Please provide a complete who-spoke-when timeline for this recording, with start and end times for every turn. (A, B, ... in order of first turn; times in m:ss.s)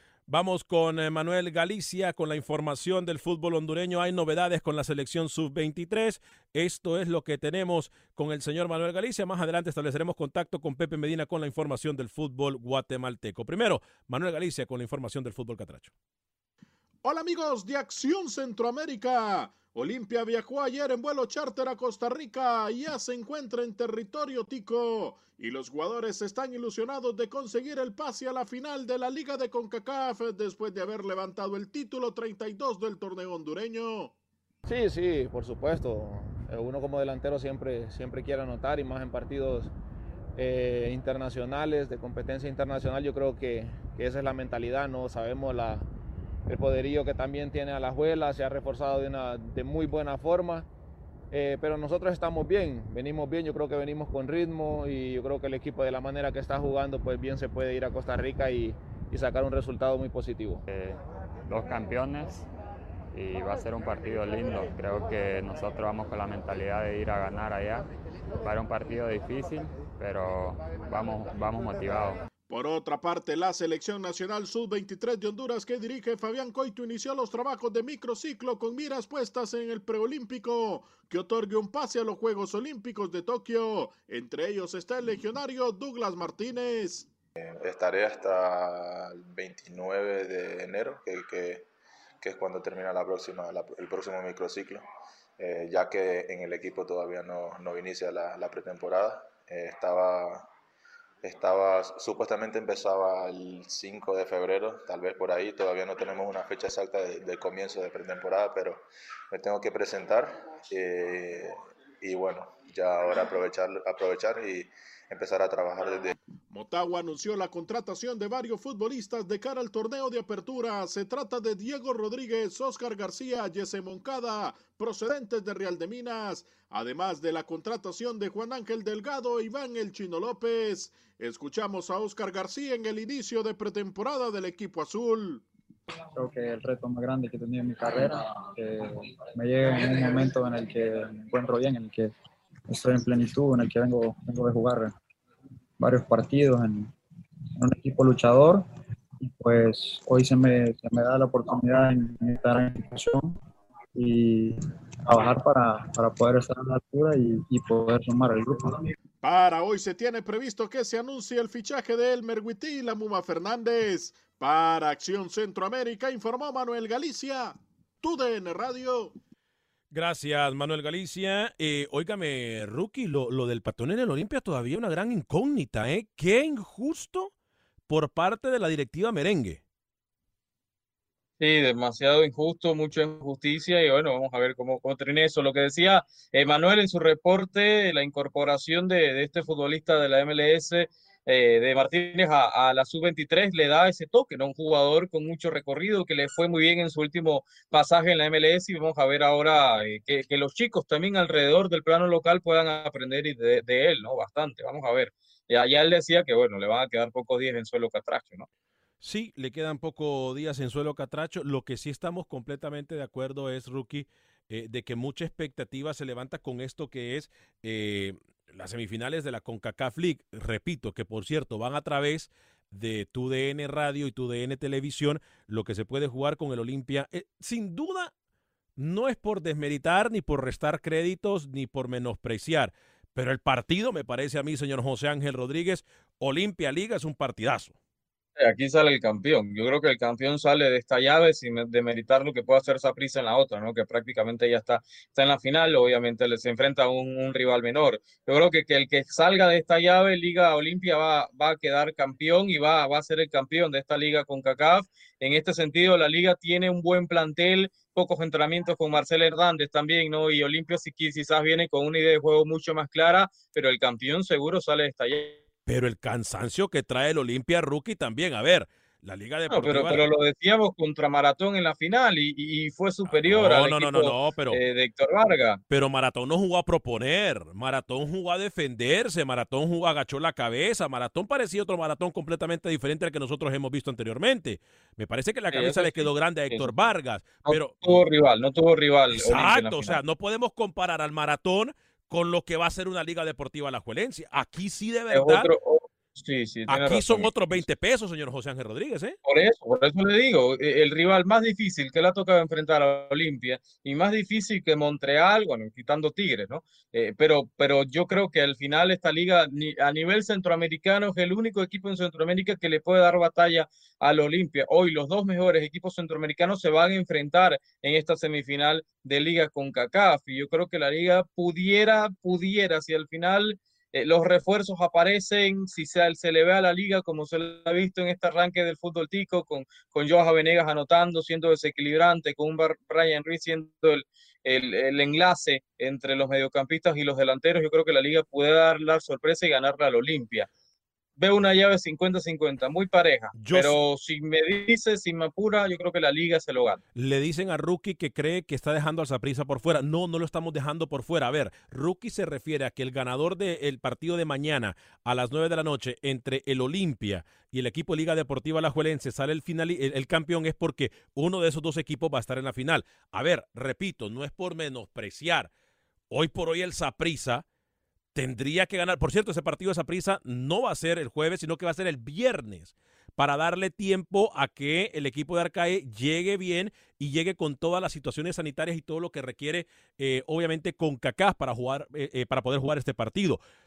0:00.3-0:15.9 A
0:17.0-0:34.1 B
0:34.6-0:39.7 C
0:40.4-0:45.9 C
0:46.5-0:50.7 C
0:51.3-1:00.6 C
1:00.7-1:02.4 D
1:03.1-1:07.9 D
1:08.4-1:12.2 D
1:12.5-1:27.1 B
1:27.4-1:31.6 E
1:32.2-1:34.8 E
1:35.4-1:40.5 E
1:41.2-1:56.2 E
1:56.5-2:15.4 B
2:16.1-2:22.1 F
2:22.7-2:24.9 F
2:25.8-2:26.9 F
2:27.6-2:28.7 F
2:29.2-2:33.4 F
2:33.9-2:38.9 F
2:39.2-2:49.1 B
2:49.9-2:57.3 A
2:57.9-2:59.6 A
3:01.4-3:28.4 G
3:29.0-3:48.1 A
3:48.8-3:57.7 A
3:58.4-4:25.4 G
4:25.6-4:30.0 A
4:29.5-4:35.6 G
4:33.1-4:34.6 A
4:35.7-4:48.0 A
4:45.5-4:46.7 G
4:47.4-4:50.0 G
4:49.1-4:55.5 A
4:55.1-4:57.6 G
4:56.7-4:59.2 A
4:59.2-5:40.5 G
5:41.2-5:46.8 G
5:43.3-5:43.8 A
5:46.9-6:05.5 A
6:06.1-6:07.4 A
6:08.1-6:23.4 A